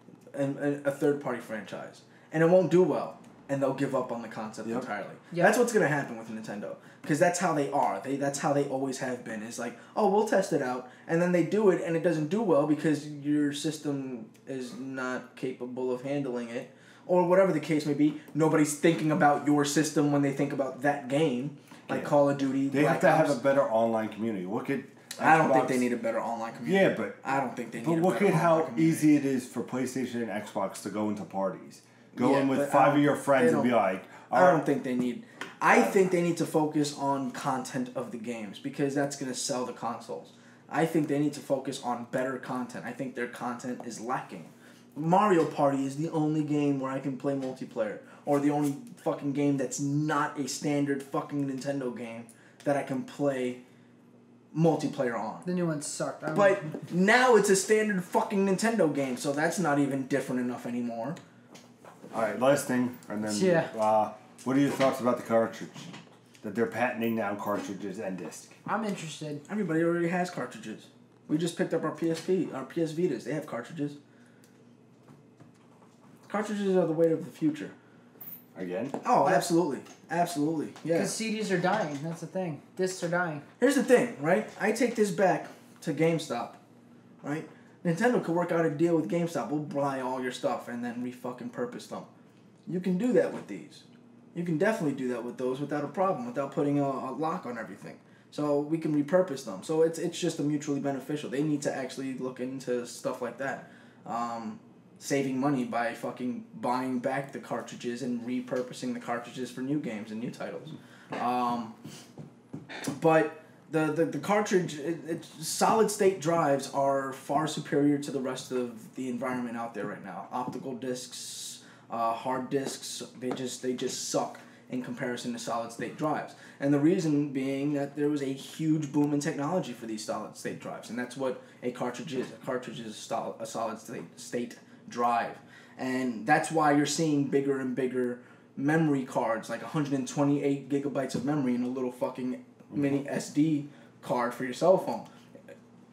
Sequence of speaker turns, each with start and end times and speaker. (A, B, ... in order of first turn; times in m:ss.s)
0:00.3-0:23.4 A
0:21.9-0:22.1 B
0:22.7-0:25.8 B
0:25.2-0:29.1 A
0:26.6-0:34.6 B
0:32.1-0:33.7 A
0:34.3-0:53.6 A
0:35.7-0:36.1 B
0:54.5-0:55.4 A
0:55.4-0:56.8 C
0:56.3-1:01.2 A
1:02.1-1:08.6 B
1:03.2-1:03.7 C
1:08.6-1:09.4 C
1:09.5-1:14.0 A
1:16.3-1:17.7 A
1:18.5-1:19.0 B
1:19.0-1:21.1 A
1:20.9-1:23.4 C
1:23.6-1:26.6 A
1:27.2-1:32.1 A
1:32.7-1:33.8 A
1:34.3-1:51.7 A
1:52.9-2:25.1 A
2:22.7-2:23.0 B